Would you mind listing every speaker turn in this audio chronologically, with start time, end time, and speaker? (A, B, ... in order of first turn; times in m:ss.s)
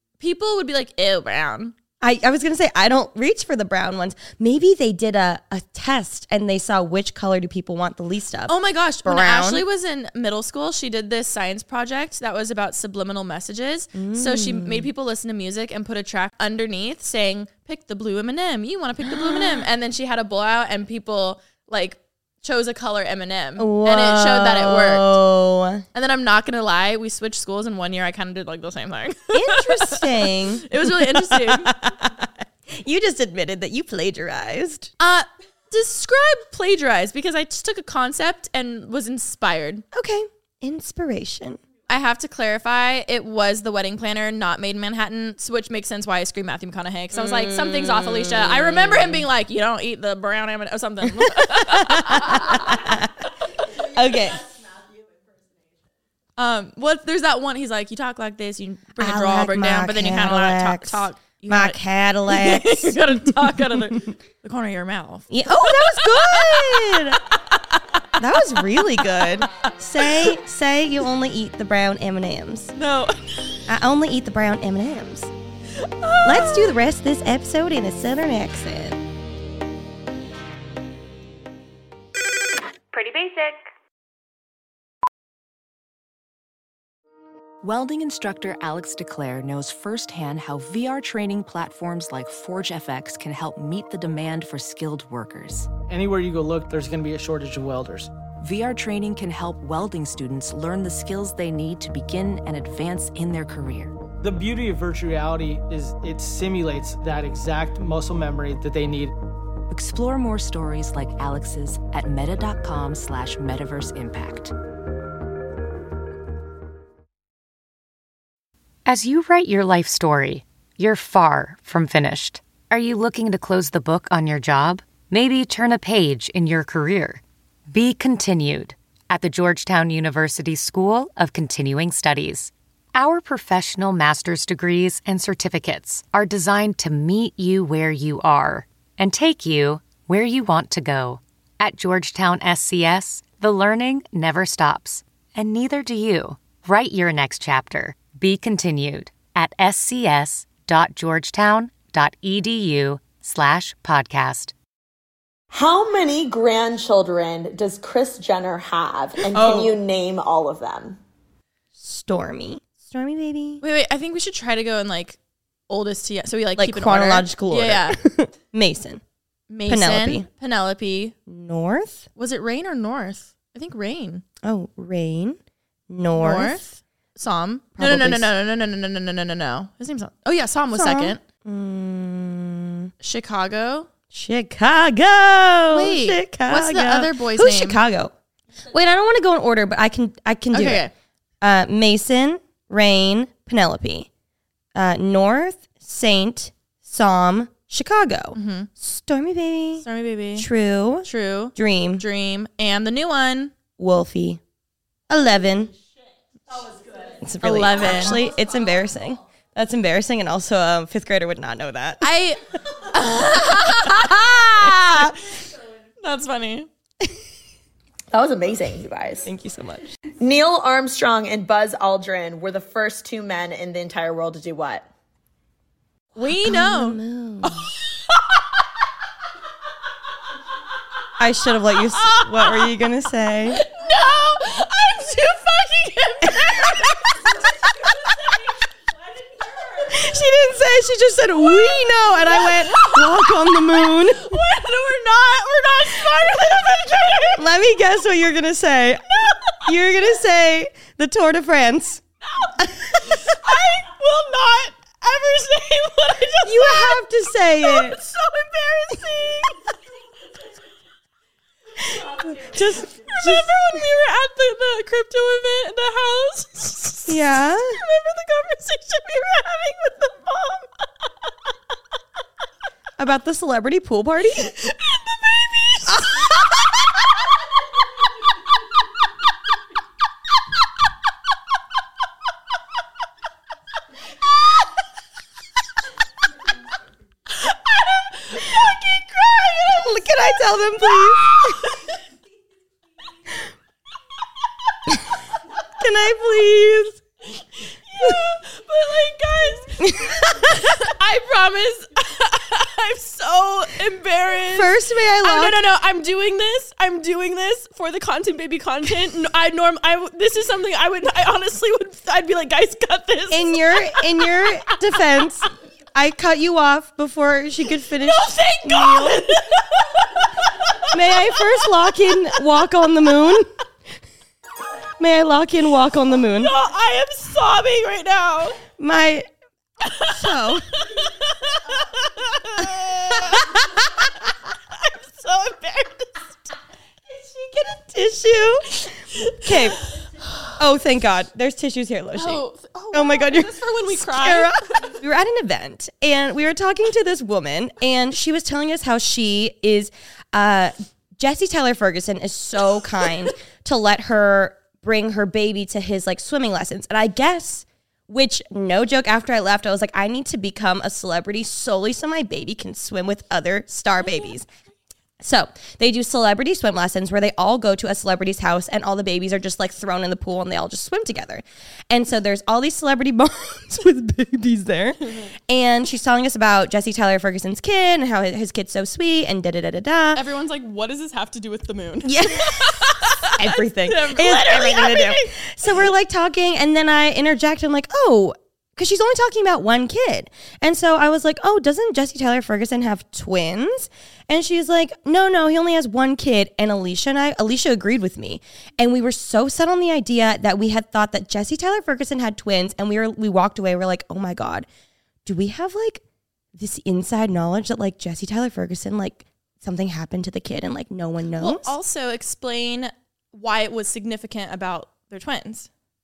0:00.2-0:01.7 A
0:02.0-0:08.5 B
0:08.5-0:25.1 A
0:09.0-0:09.6 B
0:13.9-0:14.9 B
0:19.0-0:19.6 B
0:23.6-0:25.8 B
0:25.9-0:31.7 A
0:29.3-0:34.9 B
0:35.0-0:39.8 A
0:39.9-0:41.6 B
0:41.9-0:52.9 A
0:47.1-0:49.3 B
0:51.0-0:53.1 B
0:53.8-0:54.5 B
0:56.4-1:07.8 A
0:59.0-1:03.9 B
1:05.3-1:07.2 B
1:08.2-1:12.7 B
1:08.5-1:10.4 A
1:12.8-1:13.6 A
1:13.7-1:15.3 B
1:15.8-1:16.8 A
1:16.2-1:19.0 B
1:27.6-1:35.7 C
1:35.9-1:38.1 D
1:38.4-1:43.9 C
1:44.2-1:49.1 D
1:49.7-1:54.5 C
1:58.8-2:34.5 E
2:35.5-2:41.0 F
2:39.3-2:39.7 B
2:41.8-2:43.6 B
2:43.6-2:45.2 A
2:45.7-2:48.0 A
2:46.5-2:49.0 B
2:49.5-2:51.2 A
2:49.6-2:50.3 B
2:51.3-2:52.0 B
2:52.2-2:54.2 A
2:54.4-2:55.4 B
2:55.9-2:56.6 B
2:56.2-3:01.2 A
2:57.8-2:58.3 B
3:00.7-3:02.9 B
3:03.0-3:03.9 A
3:04.1-3:08.1 B
3:05.7-3:07.8 A
3:08.7-3:10.8 B
3:10.5-3:10.9 A
3:11.4-3:14.1 B
3:14.7-3:22.0 B
3:18.3-3:18.7 A
3:19.8-3:20.5 A
3:21.0-3:23.5 A
3:23.8-3:24.4 B
3:25.1-3:25.7 B
3:27.1-3:32.1 B
3:27.4-3:28.2 A
3:32.0-3:35.2 A
3:33.5-3:35.2 B
3:36.0-3:36.7 A
3:38.1-3:39.3 F
3:39.2-3:39.9 B
3:40.2-3:44.8 F
3:46.2-3:47.7 A
3:46.2-3:47.7 B
3:51.2-3:53.6 B
3:52.0-3:52.7 A
3:53.5-3:57.2 A
3:56.3-3:57.8 B
3:59.7-4:04.4 B
4:01.5-4:07.4 A
4:07.4-4:12.0 B
4:09.3-4:09.6 A
4:12.6-4:13.2 B
4:12.9-4:19.6 A
4:16.4-4:18.0 B
4:21.9-4:30.8 A
4:22.0-4:23.5 B
4:27.1-4:27.8 B
4:33.0-4:34.5 B
4:34.4-4:36.4 A
4:35.9-4:36.4 B
4:47.3-4:51.9 A
4:49.7-4:51.6 B
4:55.7-4:57.0 B
4:57.3-5:14.5 A
4:59.8-5:00.7 B
5:04.5-5:05.6 B
5:13.3-5:19.3 B
5:18.0-5:21.3 A
5:20.9-5:23.5 B
5:25.0-5:26.5 B
5:26.3-5:28.6 A
5:28.8-5:29.3 B
5:29.8-5:30.1 A
5:30.0-5:30.6 B
5:30.9-5:33.8 A
5:34.7-5:36.1 A
5:37.4-5:37.6 A
5:37.6-5:38.9 B
5:38.8-5:40.5 A
5:39.4-5:39.8 B
5:40.6-6:04.5 B
5:42.2-5:45.0 A
6:05.2-6:20.2 B
6:20.1-6:25.3 A
6:22.0-6:44.7 B
6:45.2-6:46.0 B
6:46.5-6:51.7 B
6:51.4-6:55.7 A